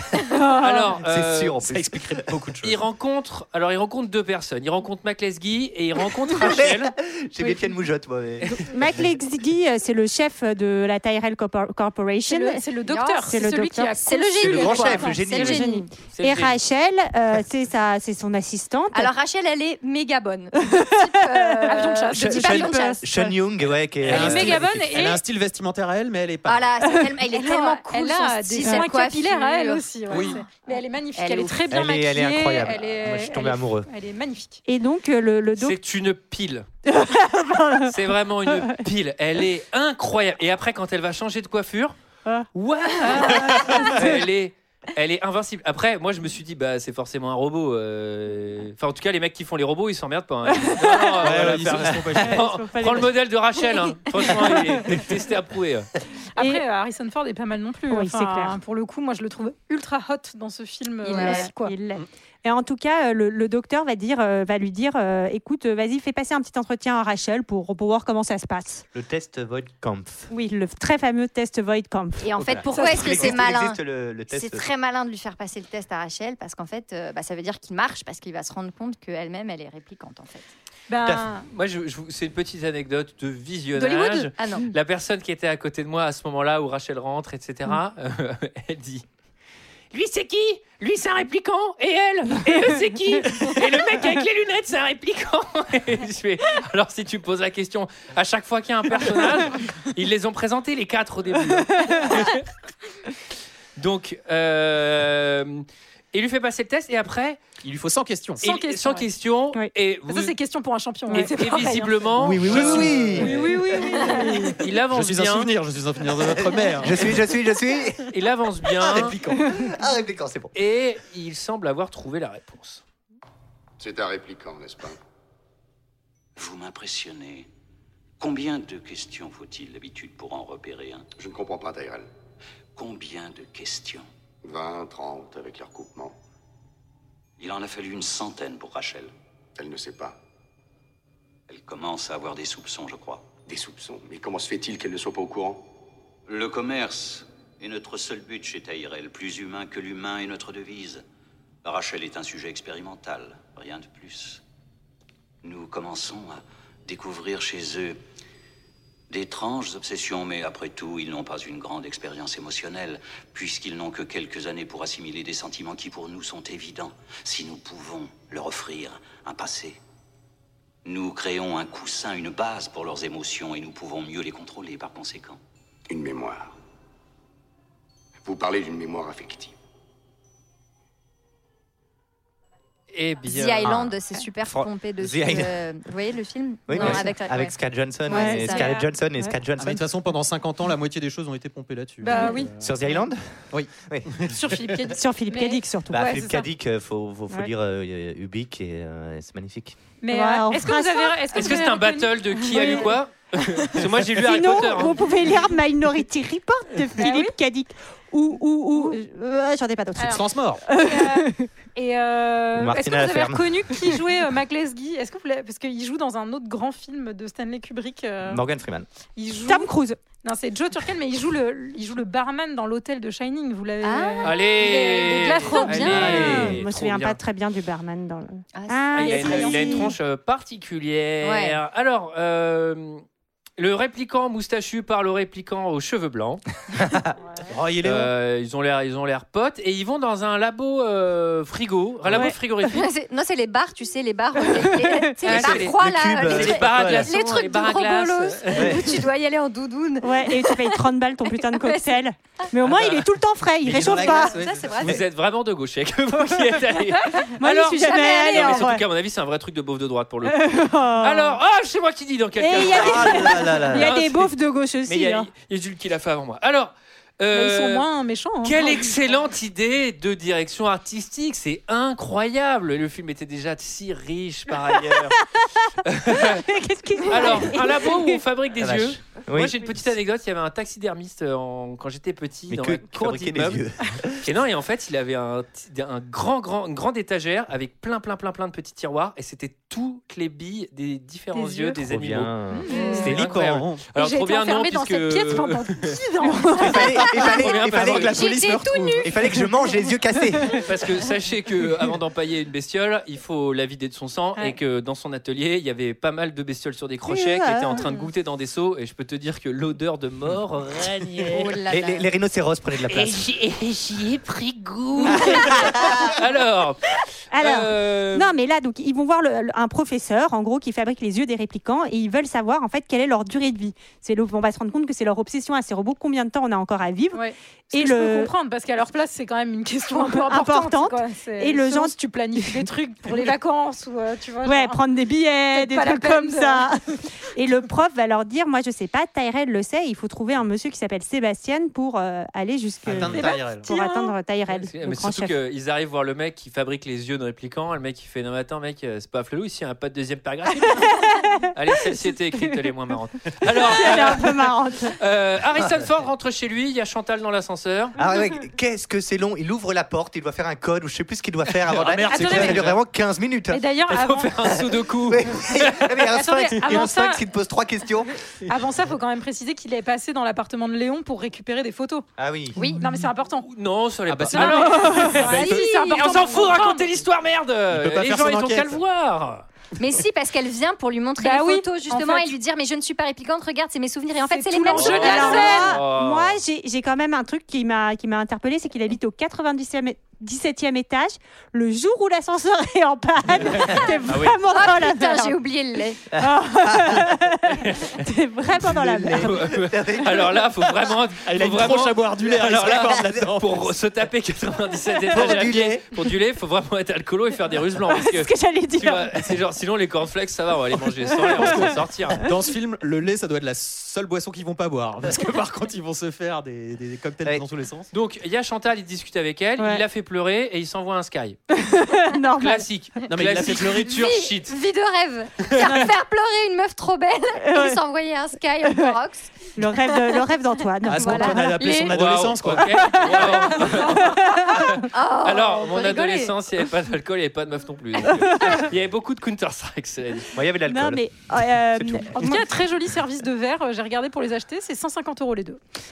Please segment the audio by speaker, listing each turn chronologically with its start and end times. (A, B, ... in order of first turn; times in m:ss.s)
0:00.3-0:00.9 A
0:00.6-0:01.6 B
0:01.0-0:02.2 C
0:01.6-0:02.8 D
0:02.6-0:06.9 B
0:06.2-0:08.4 C
0:08.5-0:12.6 A
0:12.2-0:15.3 E
0:12.9-0:13.3 F
0:13.2-0:14.0 A
0:14.0-0:15.9 F
0:14.4-0:15.7 C
0:15.0-0:19.1 A
0:16.1-0:16.6 B
0:18.9-0:23.2 F
0:20.7-0:21.7 A
0:21.7-0:23.3 E
0:22.1-0:25.0 C
0:24.0-0:26.7 D
0:24.1-0:25.2 E
0:26.4-0:31.8 F
0:27.3-0:34.6 E
0:28.6-0:28.9 A
0:30.1-0:30.4 D
0:31.7-0:33.9 C
0:34.7-0:35.8 A
0:35.6-0:36.7 B
0:36.9-0:37.9 A
0:37.8-0:41.9 B
0:42.5-0:55.9 B
0:43.1-0:44.0 A
0:50.5-0:51.4 A
0:51.2-0:52.4 D
0:52.2-0:53.1 A
0:54.2-0:54.5 A
0:56.3-1:01.7 E
0:56.4-0:56.6 A
0:57.9-0:58.6 A
1:01.0-1:01.5 F
1:01.0-1:08.8 A
1:08.9-1:10.3 C
1:10.3-1:12.3 A
1:12.2-1:20.5 F
1:12.4-1:14.7 C
1:12.7-1:13.4 E
1:20.9-1:21.5 E
1:21.5-1:29.0 B
1:23.8-1:24.7 F
1:29.9-1:42.4 B
1:41.8-1:42.2 A
1:43.8-1:47.4 B
1:47.6-1:48.4 D
1:48.4-1:50.3 B
1:48.4-1:49.0 E
1:50.1-1:52.0 E
1:51.1-1:55.5 B
1:52.2-1:53.3 C
1:52.4-1:53.5 D
1:53.2-1:54.6 E
1:54.0-1:54.5 A
1:54.9-1:57.2 D
1:56.3-1:58.0 C
1:58.1-1:59.2 B
1:58.8-2:00.5 C
1:58.9-1:59.5 D
2:00.5-2:02.8 B
2:03.8-2:05.0 G
2:06.4-2:07.5 H
2:08.2-2:11.1 H
2:11.2-2:12.1 G
2:12.8-2:14.1 H
2:14.4-2:16.2 G
2:17.4-2:19.1 H
2:19.6-2:20.2 G
2:21.5-2:23.3 H
2:23.4-2:25.6 G
2:26.3-2:31.0 H
2:31.6-2:34.4 H
2:35.4-2:38.0 H
2:39.1-2:49.8 H
2:50.8-2:55.4 H
2:55.9-2:56.5 G
2:58.2-2:59.5 G
3:02.9-3:03.8 B
3:03.2-3:07.5 F
3:03.6-3:04.0 C
3:04.5-3:05.6 C
3:06.7-3:09.8 C
3:08.1-3:08.8 F
3:08.1-3:09.3 A
3:08.5-3:08.8 E
3:09.6-3:12.7 D
3:12.0-3:12.5 E
3:12.6-3:13.2 C
3:13.5-3:14.4 D
3:13.7-3:14.1 C
3:14.3-3:16.4 E
3:15.0-3:16.0 A
3:15.9-3:19.8 C
3:20.0-3:23.0 E
3:20.1-3:21.8 A
3:21.3-3:25.0 B
3:22.6-3:22.8 A
3:24.2-3:31.5 A
3:27.0-3:27.3 E
3:28.7-3:29.0 E
3:30.0-3:30.6 D
3:30.7-3:38.4 E
3:32.6-3:33.8 C
3:38.2-3:38.8 C
3:39.2-3:46.0 E
3:39.4-3:40.0 A
3:43.8-3:46.2 F
3:44.2-3:47.2 B
3:45.7-3:49.9 A
3:45.9-3:46.6 C
3:48.5-3:49.9 F
3:48.9-3:53.0 B
3:51.2-3:51.6 F
3:53.6-3:56.4 B
3:56.8-3:57.0 C
3:57.5-3:58.1 D
3:57.8-4:02.9 B
4:02.1-4:02.3 A
4:02.7-4:10.8 F
4:05.2-4:08.9 B
4:05.3-4:07.1 C
4:08.5-4:08.9 C
4:10.0-4:14.4 A
4:11.4-4:12.0 F
4:12.6-4:13.0 B
4:13.6-4:14.8 D
4:13.9-4:15.0 F
4:14.8-4:20.4 B
4:16.3-4:16.6 A
4:17.1-4:18.8 F
4:17.4-4:18.8 A
4:20.2-4:21.4 A
4:21.0-4:27.8 B
4:22.4-4:25.3 A
4:22.7-4:24.0 C
4:27.3-4:29.0 E
4:28.4-4:35.2 B
4:34.9-4:38.2 A
4:35.8-4:36.5 B
4:37.0-4:43.6 B
4:38.6-4:39.6 C
4:42.5-4:44.2 C
4:44.2-4:52.3 B
4:51.7-4:52.7 C
4:52.5-4:53.1 E
4:52.9-4:53.8 D
4:53.0-4:58.2 B
4:54.0-4:57.1 E
4:56.6-5:00.6 C
4:57.3-4:59.1 F
4:57.8-4:59.1 D
5:00.6-5:11.5 B
5:07.1-5:07.8 A
5:11.3-5:12.0 F
5:11.7-5:13.2 C
5:12.9-5:18.3 B
5:15.2-5:16.0 C
5:17.3-5:28.3 A
5:27.1-5:34.8 E
5:29.9-5:32.6 A
5:34.4-5:45.3 A
5:35.5-5:36.7 E
5:42.8-5:43.7 D
5:43.0-5:44.2 E
5:44.5-5:57.9 B
5:50.8-5:51.4 A
5:53.5-5:55.0 A
5:58.0-6:03.6 C
6:01.7-6:02.7 D
6:02.1-6:02.6 E
6:02.1-6:02.8 B
6:03.5-6:04.3 E
6:03.9-6:06.1 B
6:04.4-6:08.1 C
6:06.1-6:07.2 E
6:08.5-6:12.0 E
6:12.2-6:12.6 C
6:12.8-6:13.4 E
6:13.4-6:19.4 B
6:14.1-6:15.6 D
6:14.3-6:16.9 E
6:15.3-6:16.0 F
6:17.7-6:18.8 D
6:19.8-6:25.8 F
6:21.2-6:22.3 E
6:24.2-6:25.8 E
6:24.7-6:26.4 B
6:25.0-6:35.4 A
6:34.1-6:34.4 D
6:34.4-6:36.0 F
6:36.1-6:37.2 C
6:36.1-6:39.3 A
6:38.5-6:40.7 C
6:39.1-6:52.2 B
6:41.2-6:43.7 D
6:42.6-6:43.2 C
6:45.1-6:45.8 C
6:47.9-6:49.2 A
6:51.2-6:57.9 D
6:57.9-7:01.4 B
6:59.6-6:59.8 A
7:01.6-7:02.6 A
7:02.4-7:04.6 B
7:03.1-7:03.9 D
7:03.9-7:10.2 F
7:05.6-7:05.9 A
7:07.4-7:07.8 A
7:08.6-7:09.0 A
7:09.6-7:11.8 A
7:10.8-7:13.0 D
7:11.0-7:11.9 F
7:11.7-7:20.3 B
7:13.0-7:14.8 A
7:14.9-7:16.3 F
7:18.3-7:18.6 A
7:20.3-7:21.0 C
7:20.7-7:22.4 A
7:21.8-7:22.1 C
7:22.2-7:25.6 E